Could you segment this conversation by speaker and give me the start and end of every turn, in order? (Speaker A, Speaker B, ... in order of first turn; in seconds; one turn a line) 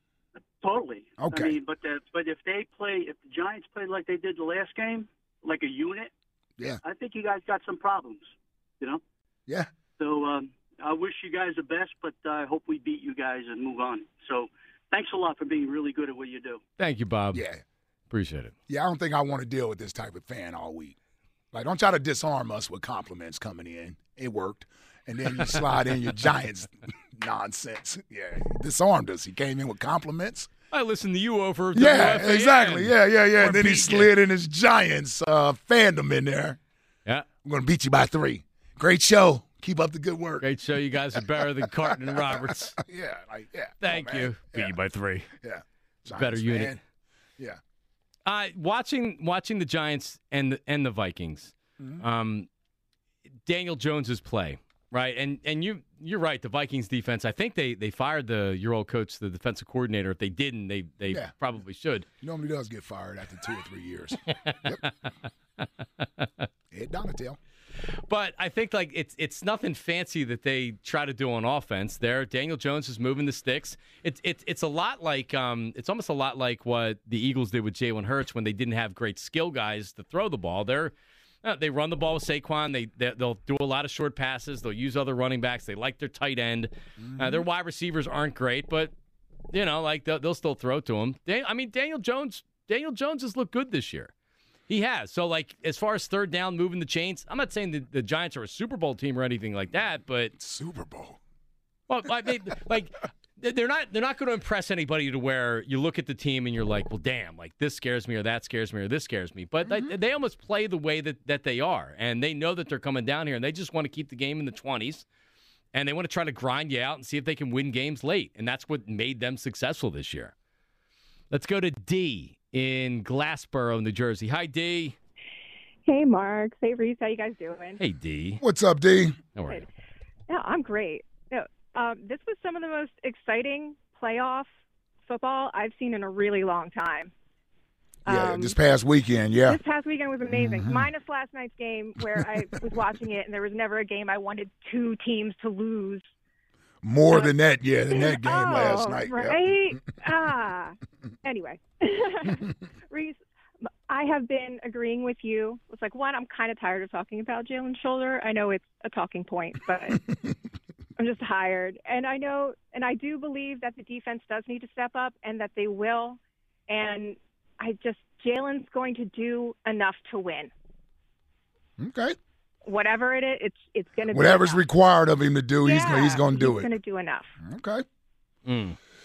Speaker A: 0.6-6.1
Speaker B: 1.2-1.6
Speaker A: 6.8-8.3
Speaker A: 10.0-16.6
Speaker C: 16.8-17.4
Speaker B: 17.3-17.6
Speaker C: 18.1-18.5
Speaker B: 18.7-21.0
Speaker B: 21.5-30.5
Speaker C: 30.7-34.1
Speaker B: 31.8-36.6
Speaker B: 37.4-40.5
Speaker C: 40.4-42.8
Speaker B: 41.9-44.8
Speaker C: 43.8-45.3
Speaker B: 45.4-46.8
Speaker C: 46.1-46.7
Speaker C: 48.3-52.5
Speaker B: 51.8-52.0
Speaker C: 53.5-62.1
Speaker B: 61.1-61.3
Speaker B: 62.2-64.8
Speaker C: 64.5-65.1
Speaker C: 66.2-66.5
Speaker B: 66.7-67.4
Speaker C: 68.1-88.9
Speaker B: 87.0-87.5
Speaker C: 89.5-94.1
Speaker C: 94.7-100.3
Speaker B: 100.4-101.2
Speaker C: 101.9-115.0
Speaker B: 109.6-109.9
Speaker C: 115.7-120.3
Speaker C: 121.3-125.0
Speaker D: 125.9-127.8
Speaker C: 127.8-128.4
Speaker B: 128.4-129.2
Speaker C: 129.4-129.7
Speaker D: 130.3-134.5
Speaker D: 135.1-137.1
Speaker D: 138.1-138.6
Speaker B: 138.1-139.6
Speaker D: 139.4-146.1
Speaker B: 140.3-140.9
Speaker B: 146.8-149.6
Speaker D: 147.1-147.3
Speaker D: 147.9-153.2
Speaker D: 153.9-160.0
Speaker D: 161.0-170.5
Speaker B: 171.8-172.2
Speaker D: 172.7-174.6
Speaker B: 174.1-176.7
Speaker D: 175.6-177.3
Speaker B: 177.4-177.8
Speaker C: 178.5-178.8